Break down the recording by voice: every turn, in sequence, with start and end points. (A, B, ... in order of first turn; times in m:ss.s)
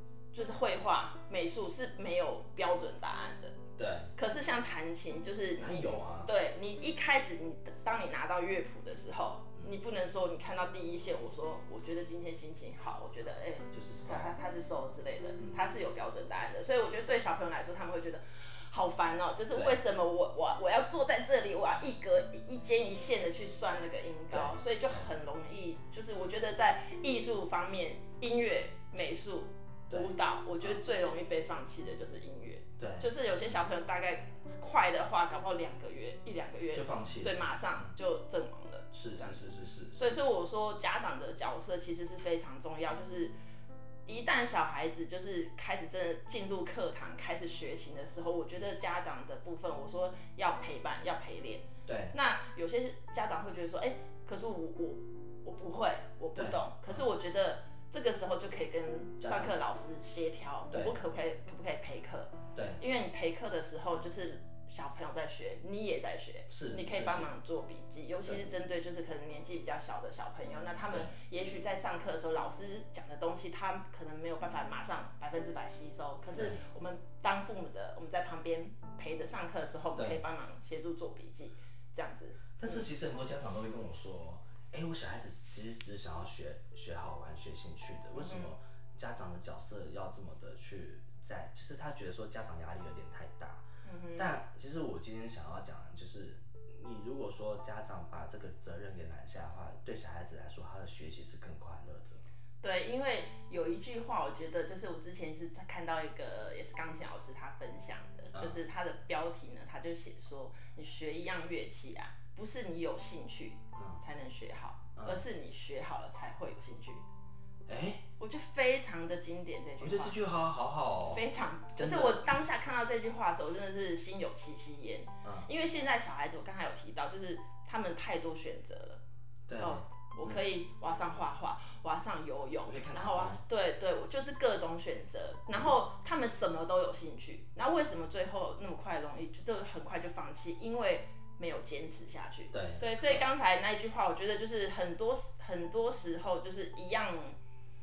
0:00.3-0:03.6 A
0:03.8-0:04.1 B
0:04.2-0:39.4 A
0:05.6-0:06.3 B
0:13.7-0:14.4 B
0:19.5-0:19.8 B
0:24.3-0:25.1 B
0:32.8-0:33.6 B
0:36.7-0:37.5 B
0:38.9-0:40.1 B
0:40.0-0:43.3 A
0:44.1-1:22.9 A
0:51.8-0:52.1 B
0:56.4-0:57.0 B
0:59.2-0:59.5 B
1:00.7-1:01.0 B
1:02.5-1:02.8 B
1:06.5-1:07.3 B
1:10.9-1:11.2 B
1:16.3-1:16.6 B
1:22.6-1:33.6 B
1:28.1-1:28.5 A
1:33.8-1:34.4 A
1:34.2-1:42.2 B
1:42.6-1:57.0 A
1:55.0-1:55.2 B
1:57.7-1:58.0 B
1:58.2-2:00.2 A
1:59.8-2:01.2 B
2:01.1-2:09.0 A
2:01.8-2:02.2 B
2:09.5-2:10.4 B
2:09.6-2:27.4 A
2:12.6-2:13.4 B
2:22.5-2:23.3 B